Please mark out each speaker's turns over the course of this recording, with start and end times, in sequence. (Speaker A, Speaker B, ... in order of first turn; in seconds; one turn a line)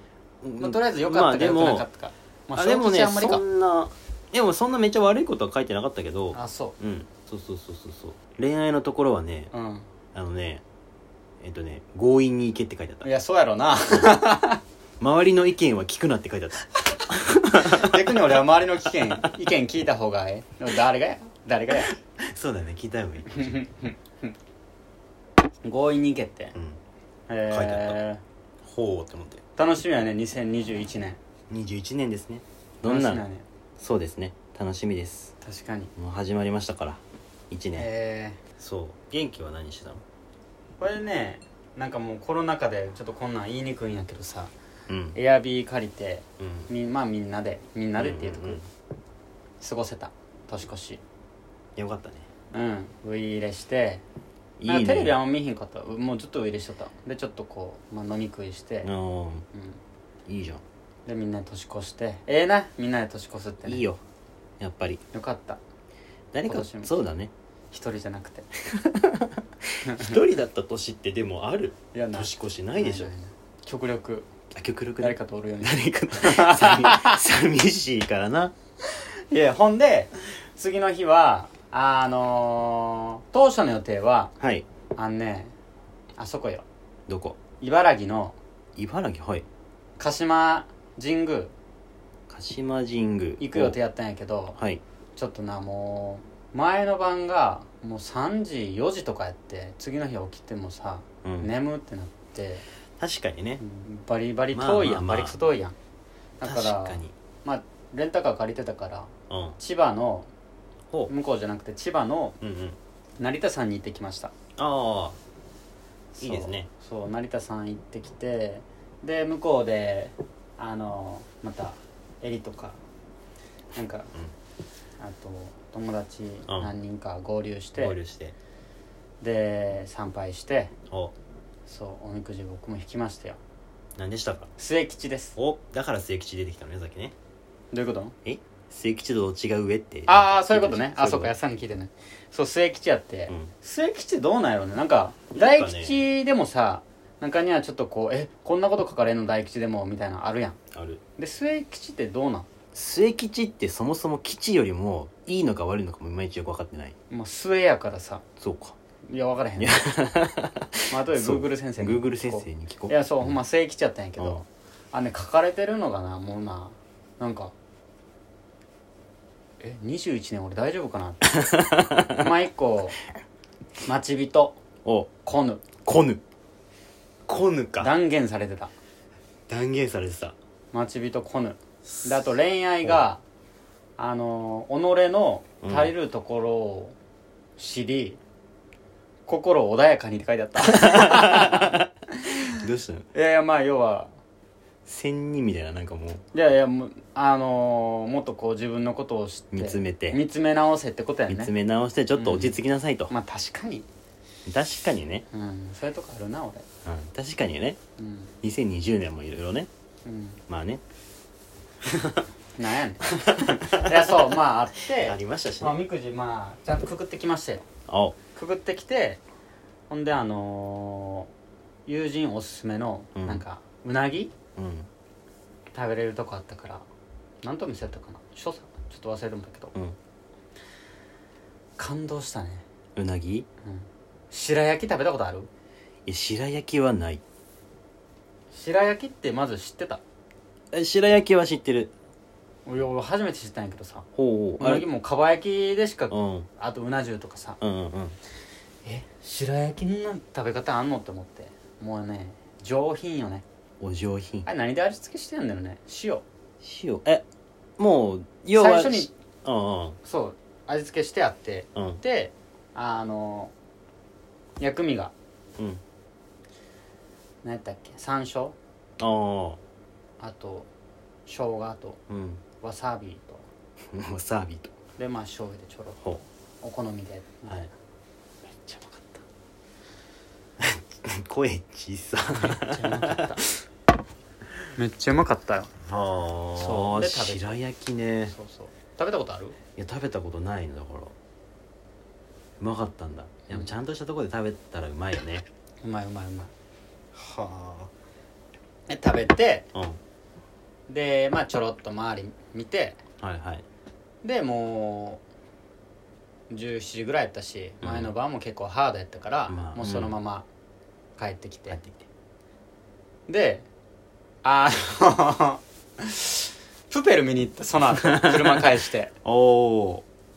Speaker A: 0.4-1.8
Speaker B: 0.6-3.4
Speaker A: 2.5-9.5
Speaker B: 6.3-6.8
Speaker B: 9.5-9.9
Speaker A: 10.1-10.6
Speaker A: 11.4-13.1
Speaker B: 13.0-14.6
Speaker A: 15.0-19.3
Speaker B: 17.6-21.9
Speaker A: 21.7-23.6
Speaker B: 23.3-24.2
Speaker B: 25.6-26.5
Speaker A: 26.5-26.8
Speaker B: 27.3-28.2
Speaker A: 27.5-28.0
Speaker A: 28.6-29.4
Speaker B: 29.6-31.2
Speaker A: 31.5-33.2
Speaker B: 32.8-33.4
Speaker A: 33.8-35.3
Speaker B: 35.4-35.9
Speaker A: 36.0-37.9
Speaker B: 37.8-38.4
Speaker A: 38.6-40.0
Speaker B: 40.8-44.5
Speaker A: 44.9-45.2
Speaker B: 45.1-48.6
Speaker A: 46.4-46.7
Speaker A: 48.0-48.7
Speaker B: 49.6-51.0
Speaker A: 51.8-52.3
Speaker B: 52.5-54.0
Speaker A: 54.6-55.2
Speaker B: 54.6-58.9
Speaker A: 58.8-59.5
Speaker B: 59.5-59.8
Speaker A: 60.3-60.6
Speaker B: 61.0-63.9
Speaker A: 63.6-64.0
Speaker A: 64.6-65.0
Speaker B: 65.1-65.6
Speaker A: 66.3-67.3
Speaker B: 66.5-66.9
Speaker B: 67.7-68.5
Speaker A: 68.7-73.1
Speaker B: 69.8-70.2
Speaker B: 71.9-74.3
Speaker A: 74.5-78.5
Speaker B: 75.0-77.2
Speaker B: 78.9-84.3
Speaker A: 84.4-84.6
Speaker B: 85.0-85.5
Speaker B: 86.2-86.6
Speaker A: 87.1-87.4
Speaker B: 87.6-88.3
Speaker A: 88.8-89.4
Speaker B: 90.0-91.5
Speaker A: 92.3-93.8
Speaker B: 93.4-94.6
Speaker A: 94.6-94.8
Speaker B: 95.2-102.6
Speaker A: 101.2-101.5
Speaker A: 103.0-103.6
Speaker B: 103.6-105.8
Speaker A: 104.5-105.4
Speaker B: 106.4-110.3
Speaker A: 106.4-107.1
Speaker A: 109.3-109.6
Speaker B: 111.1-112.4
Speaker A: 112.4-112.8
Speaker B: 113.2-114.3
Speaker A: 114.6-115.2
Speaker B: 116.1-122.8
Speaker A: 116.2-116.7
Speaker B: 123.7-124.1
Speaker B: 125.0-128.0
Speaker A: 126.5-126.7
Speaker A: 127.8-128.3
Speaker B: 129.2-130.7
Speaker B: 131.7-133.4
Speaker A: 134.0-134.5
Speaker B: 134.6-135.3
Speaker A: 135.3-137.1
Speaker B: 137.7-138.1
Speaker A: 138.2-141.3
Speaker B: 140.1-150.6
Speaker A: 145.3-146.1
Speaker A: 150.7-151.0
Speaker B: 151.2-152.5
Speaker A: 152.7-156.9
Speaker B: 157.1-158.2
Speaker A: 158.4-158.8
Speaker B: 159.1-159.8
Speaker A: 159.6-163.4
Speaker B: 160.9-167.5
Speaker A: 164.2-164.4
Speaker B: 169.6-171.4
Speaker A: 171.2-172.2
Speaker B: 172.1-173.0
Speaker B: 173.8-174.6
Speaker A: 174.8-175.1
Speaker B: 175.2-175.7
Speaker A: 175.8-176.2
Speaker A: 177.3-177.9
Speaker B: 177.8-178.7
Speaker A: 179.5-180.3
Speaker B: 180.7-183.2
Speaker B: 184.0-186.9
Speaker A: 185.6-185.9
Speaker B: 187.6-188.2
Speaker B: 189.3-192.5
Speaker A: 190.6-191.8
Speaker A: 192.5-193.1
Speaker B: 193.1-194.1
Speaker A: 194.8-196.2
Speaker B: 196.3-201.5
Speaker A: 199.5-200.2
Speaker A: 201.3-203.1
Speaker B: 202.2-202.6
Speaker B: 203.1-203.8
Speaker A: 204.5-205.2
Speaker B: 205.3-206.6
Speaker A: 206.8-207.8
Speaker B: 208.0-208.3
Speaker A: 208.4-209.7
Speaker B: 210.0-210.4
Speaker A: 210.5-210.8
Speaker A: 211.8-212.2
Speaker B: 212.6-217.7
Speaker A: 213.1-214.3
Speaker A: 214.9-215.8
Speaker A: 217.9-218.2
Speaker B: 218.3-219.2
Speaker B: 219.9-221.3
Speaker B: 221.8-224.3
Speaker A: 223.1-223.4
Speaker A: 224.6-224.9
Speaker B: 225.7-226.8
Speaker B: 227.4-229.7
Speaker B: 231.8-232.6
Speaker A: 232.9-233.5
Speaker B: 233.6-235.5
Speaker A: 236.1-237.2
Speaker B: 238.5-240.0
Speaker A: 240.7-241.9
Speaker B: 242.7-244.1
Speaker A: 244.1-244.8
Speaker B: 244.6-247.6
Speaker A: 246.1-246.5
Speaker A: 247.6-248.2
Speaker B: 248.8-253.4
Speaker A: 253.8-254.5
Speaker B: 254.4-256.2
Speaker A: 256.6-257.2
Speaker A: 257.8-260.0
Speaker B: 258.5-259.1
Speaker B: 260.0-263.5
Speaker A: 261.7-262.0
Speaker B: 264.6-265.1
Speaker B: 267.4-268.6
Speaker A: 269.0-269.6
Speaker B: 270.2-270.7
Speaker B: 271.2-272.0
Speaker A: 272.1-272.4
Speaker B: 272.6-273.4
Speaker A: 273.9-274.7
Speaker B: 275.0-276.0
Speaker B: 276.6-277.7
Speaker A: 278.5-279.1
Speaker A: 280.6-283.2
Speaker B: 282.3-283.6
Speaker B: 284.8-285.7
Speaker A: 285.9-288.3
Speaker B: 286.6-287.6
Speaker B: 288.3-289.6
Speaker A: 289.8-291.1
Speaker A: 292.6-295.4
Speaker B: 293.5-293.7
Speaker B: 295.8-296.5
Speaker A: 297.1-297.9
Speaker B: 298.9-299.7
Speaker B: 300.9-303.0
Speaker A: 303.2-303.6
Speaker B: 304.2-305.2
Speaker B: 306.5-310.5
Speaker A: 307.8-308.1
Speaker A: 309.5-310.2
Speaker B: 311.2-311.8
Speaker A: 311.7-312.1
Speaker B: 313.3-313.7
Speaker B: 314.4-319.1
Speaker A: 317.8-318.7
Speaker A: 319.2-320.0